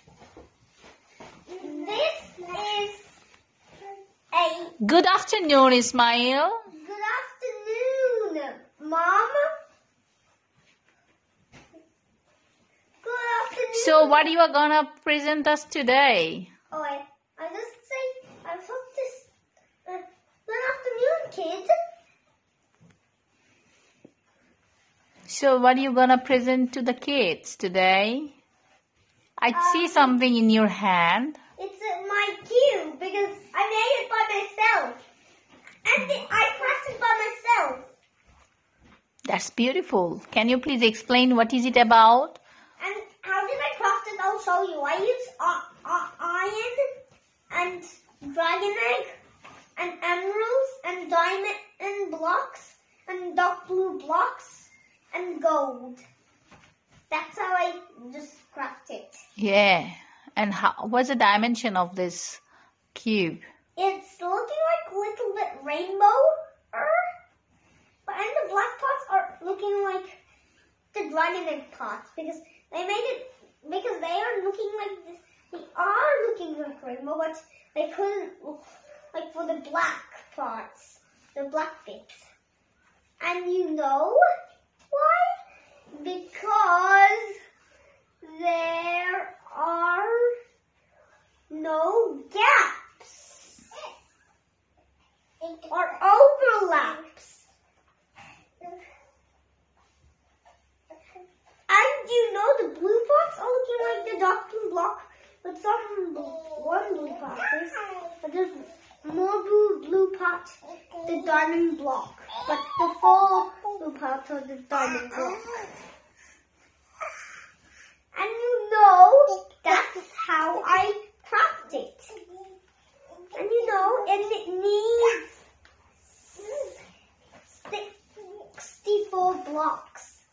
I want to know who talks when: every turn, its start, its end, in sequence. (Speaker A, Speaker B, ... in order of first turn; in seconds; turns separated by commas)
Speaker A: 1.6-3.0, Speaker A: 4.3-4.7, Speaker B: 4.8-6.6, Speaker A: 6.7-9.5, Speaker A: 13.0-14.3, Speaker B: 13.7-16.5, Speaker A: 16.7-19.3, Speaker A: 19.9-21.7, Speaker B: 25.3-28.3, Speaker B: 29.4-31.4, Speaker A: 29.5-30.2, Speaker A: 31.6-35.0, Speaker A: 35.8-37.9, Speaker B: 39.3-42.4, Speaker A: 42.8-46.8, Speaker A: 47.5-49.1, Speaker A: 49.8-56.0, Speaker A: 57.1-59.2, Speaker B: 59.4-62.4, Speaker B: 62.9-63.4, Speaker A: 63.8-67.0, Speaker A: 68.0-70.2, Speaker A: 70.9-82.3, Speaker A: 83.2-84.2, Speaker A: 84.9-85.3, Speaker A: 85.9-87.4, Speaker A: 88.2-90.3, Speaker A: 91.5-93.5, Speaker A: 95.7-97.1, Speaker A: 101.7-115.5, Speaker A: 118.1-122.1, Speaker A: 123.3-125.3, Speaker A: 127.6-130.2